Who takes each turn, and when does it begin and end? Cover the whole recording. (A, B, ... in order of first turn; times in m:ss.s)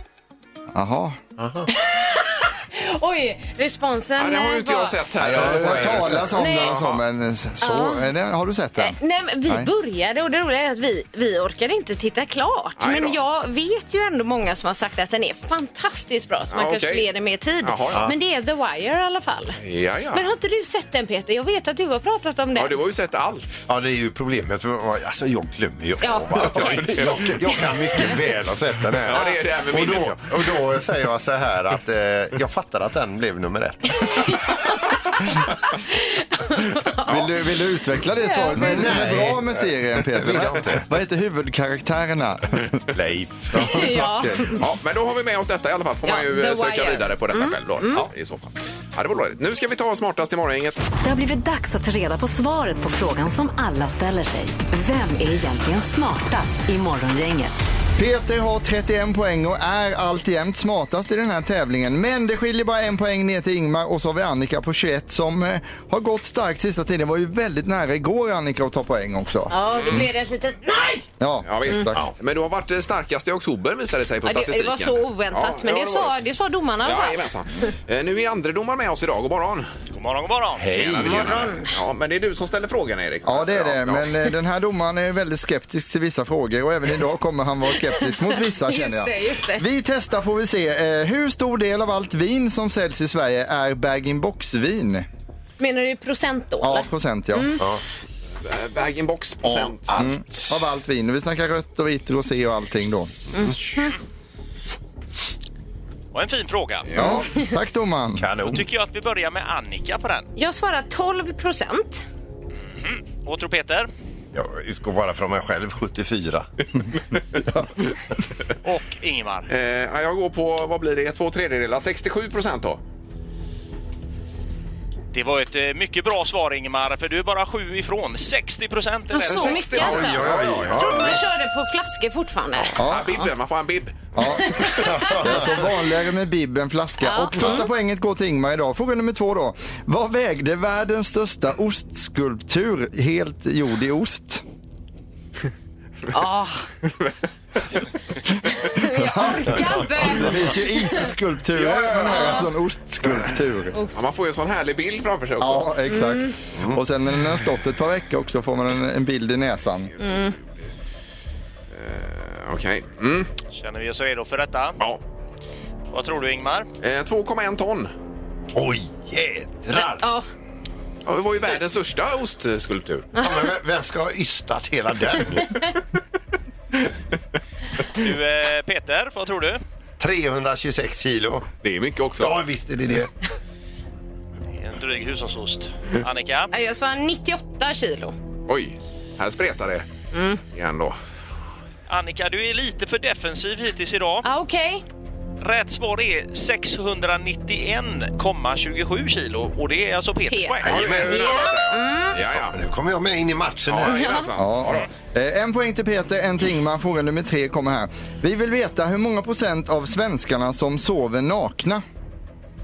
0:00.7-0:01.2 A
0:01.4-0:01.7 B
0:01.7-0:05.0 C
0:04.2-0:07.0 D
0:05.2-0:09.0 A
0:05.2-0:06.3 B
0:06.3-0:06.8 C
0:07.6-0:08.0 C
0:08.8-0:19.6 C
0:12.8-0:13.2 D
0:16.5-0:17.1 D
0:17.6-0:18.0 D
0:19.6-0:20.2 D
0:20.1-0:22.7 C
0:22.5-0:23.6 D
0:23.7-0:34.5 B
0:26.0-0:28.1 C
0:26.4-0:27.3 D
0:29.0-0:30.6 D
0:34.0-0:37.2 C
0:37.0-0:37.3 D
0:37.0-0:42.8 A
0:38.2-0:39.1 C
0:38.6-0:40.8 B
0:42.9-0:44.0 B
0:43.5-0:44.5 A
0:43.6-0:44.6 C
0:44.5-0:50.9 D
0:46.0-0:48.0 C
0:51.0-0:57.6 E
0:58.0-1:10.0 A
1:09.5-1:11.1 C
1:09.7-1:10.0 D
1:11.2-1:12.0 A
1:11.4-1:16.2 D
1:14.2-1:17.7 C
1:16.8-1:19.7 D
1:19.9-1:20.8 F
1:20.5-1:21.5 B
1:20.7-1:24.1 D
1:21.0-1:21.6 C
1:23.2-1:35.0 A
1:28.3-1:29.6 C
1:35.6-1:37.6 C
1:36.6-1:37.6 A
1:38.4-1:39.9 D
1:39.4-1:40.6 B
1:40.0-1:43.1 A
1:43.3-1:43.9 C
1:46.1-1:47.1 F
1:46.9-1:47.2 D
1:47.0-1:48.3 A
1:48.2-1:48.7 B
1:48.5-1:50.3 F
1:50.4-1:52.0 C
1:52.7-1:53.9 F
1:54.3-1:56.5 B
1:58.6-1:59.5 F
1:59.5-2:02.8 D
2:05.1-2:09.4 F
2:09.1-2:13.3 C
2:09.2-2:11.1 D
2:09.3-2:11.2 B
2:12.8-2:13.2 A
2:12.8-2:14.1 D
2:14.2-2:24.4 A
2:14.2-2:15.5 C
2:14.8-2:15.4 B
2:17.0-2:17.6 C
2:26.1-2:26.7 C
2:28.5-2:31.1 C
2:28.7-2:33.8 A
2:29.6-2:30.2 B
2:31.5-2:32.4 D
2:32.0-2:32.4 C
2:33.9-2:35.7 D
2:35.4-2:39.9 A
2:35.9-2:36.3 C
2:36.6-2:36.8 B
2:40.0-2:40.4 C
2:41.7-2:43.3 D
2:43.5-2:44.8 F
2:45.9-2:46.7 F
2:46.8-2:47.9 D
2:48.5-2:50.0 B
2:49.7-2:50.3 C
2:51.0-2:53.1 D
2:53.1-2:53.5 C
2:53.2-2:55.7 B
2:57.9-2:59.6 F
3:00.0-3:01.5 B
3:01.6-3:02.4 D
3:02.2-3:03.1 B
3:04.5-3:06.5 F
3:06.5-3:08.1 C
3:08.5-3:09.9 D
3:10.1-3:10.4 C
3:10.5-3:11.0 D
3:11.9-3:14.2 F
3:14.2-3:14.8 C
3:15.4-3:20.8 F
3:20.3-3:22.2 C
3:20.6-3:22.6 D
3:20.6-3:21.4 B
3:22.5-3:24.0 B
3:23.7-3:24.9 D
3:23.8-3:24.3 C
3:24.4-3:31.8 A